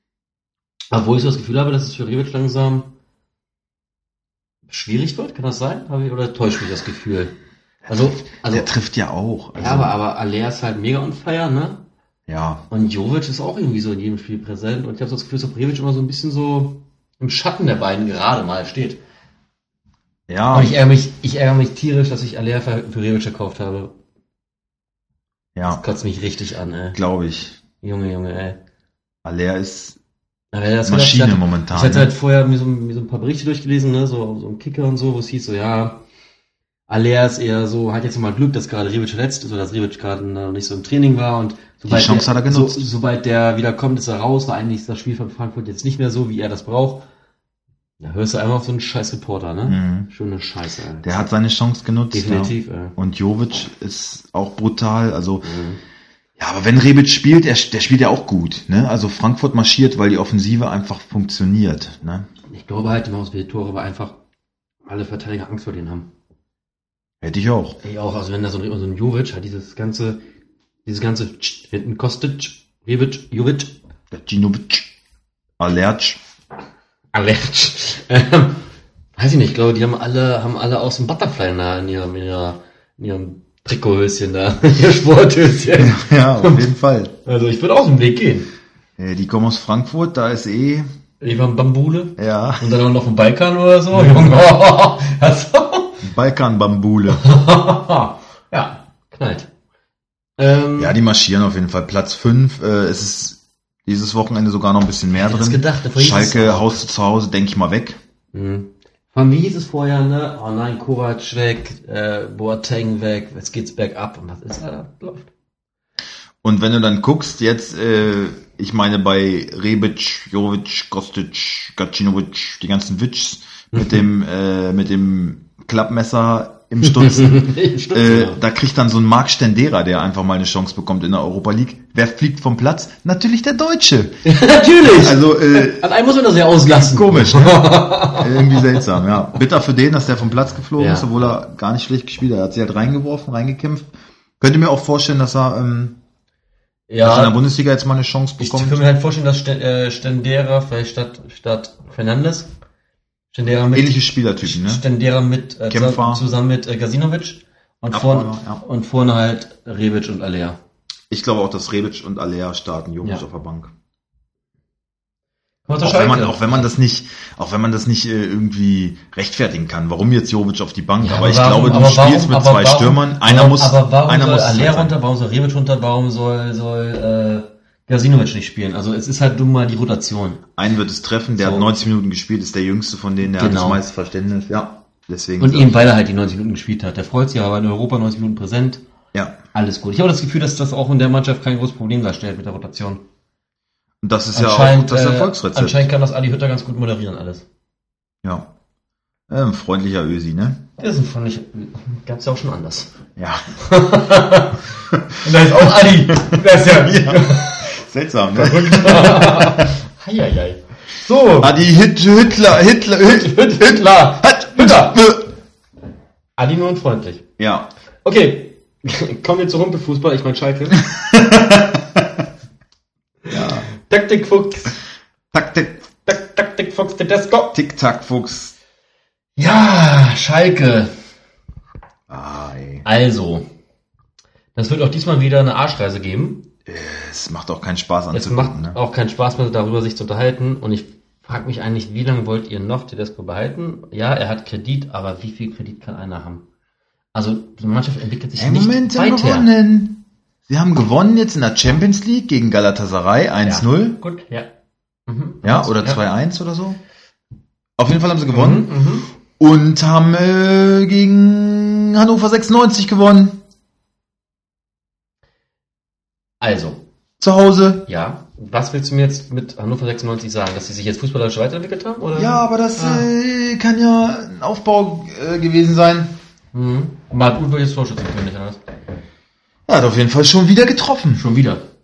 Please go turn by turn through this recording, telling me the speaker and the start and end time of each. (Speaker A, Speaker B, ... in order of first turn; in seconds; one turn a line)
Speaker A: 0.9-2.9
Speaker A: 4.7-7.3
Speaker A: 7.9-8.7
Speaker B: 7.9-9.9
Speaker A: 9.5-11.8
Speaker B: 12.3-12.6
Speaker A: 12.7-19.0
Speaker B: 20.3-20.8
Speaker A: 20.5-23.9
Speaker B: 25.5-25.8
Speaker A: 25.6-27.0
Speaker B: 26.9-27.6
Speaker A: 27.8-28.6
Speaker B: 29.2-30.0
Speaker A: 30.5-36.0
Speaker B: 30.8-32.1
Speaker A: 36.9-47.0
Speaker B: 41.9-42.9
Speaker A: 48.0-51.3
Speaker B: 49.6-50.1
Speaker B: 51.0-55.5
Speaker A: 52.1-53.0
Speaker A: 55.4-55.8
Speaker B: 56.4-62.3
Speaker A: 62.5-64.2
Speaker A: 64.8-66.1
Speaker B: 67.2-67.8
Speaker A: 67.8-70.2
Speaker A: 70.8-73.7
Speaker B: 74.1-74.9
Speaker B: 75.6-76.2
Speaker A: 77.1-78.6
Speaker A: 79.2-86.6
Speaker B: 85.7-87.1
Speaker A: 87.2-88.5
Speaker B: 89.0-90.9
Speaker A: 91.2-96.0
Speaker B: 92.2-92.7
Speaker B: 96.0-97.2
Speaker A: 97.1-99.5
Speaker A: 100.4-101.0
Speaker B: 100.8-108.0
Speaker A: 105.1-106.8
Speaker A: 108.3-115.3
Speaker B: 116.4-135.9
Speaker A: 123.7-124.0
Speaker A: 126.8-128.4
Speaker A: 134.2-139.4
Speaker B: 136.6-146.0
Speaker A: 140.8-141.3
Speaker A: 146.9-147.4
Speaker B: 147.0-148.8
Speaker A: 148.4-152.5
Speaker A: 153.3-160.6
Speaker B: 153.7-154.8
Speaker B: 155.7-156.2
Speaker B: 157.9-158.6
Speaker B: 161.1-163.7
Speaker A: 165.7-166.7
Speaker B: 165.8-174.9
Speaker A: 171.0-180.4
Speaker B: 180.6-185.7
Speaker A: 181.4-181.7
Speaker A: 183.4-183.8
Speaker A: 185.4-188.8
Speaker B: 189.1-189.4
Speaker A: 189.5-193.0
Speaker B: 194.0-195.9
Speaker A: 194.3-197.4
Speaker B: 198.2-198.5
Speaker B: 199.3-200.7
Speaker A: 200.8-202.9
Speaker B: 203.2-203.4
Speaker A: 203.6-207.7
Speaker B: 204.9-209.7
Speaker A: 208.3-211.6
Speaker B: 211.4-215.3
Speaker A: 213.0-215.1
Speaker A: 216.4-217.2
Speaker B: 217.4-217.7
Speaker A: 218.0-220.8
Speaker B: 220.8-222.2
Speaker B: 223.3-223.7
Speaker A: 223.7-224.8
Speaker B: 225.3-225.9
Speaker A: 226.1-227.5
Speaker B: 227.5-228.6
Speaker A: 229.4-230.9
Speaker B: 232.1-232.8
Speaker A: 232.8-233.4
Speaker A: 234.5-236.5
Speaker B: 236.7-238.8
Speaker A: 238.1-246.4
Speaker A: 247.1-249.5
Speaker B: 248.4-254.0
Speaker A: 253.4-254.5
Speaker A: 255.1-256.1
Speaker B: 255.4-256.8
Speaker B: 257.8-258.7
Speaker A: 258.3-259.1
Speaker B: 259.4-263.4
Speaker A: 266.4-266.8
Speaker B: 267.2-267.8
Speaker A: 267.9-273.1
Speaker B: 272.1-276.1
Speaker A: 276.5-278.6
Speaker B: 279.7-281.2
Speaker A: 281.1-281.6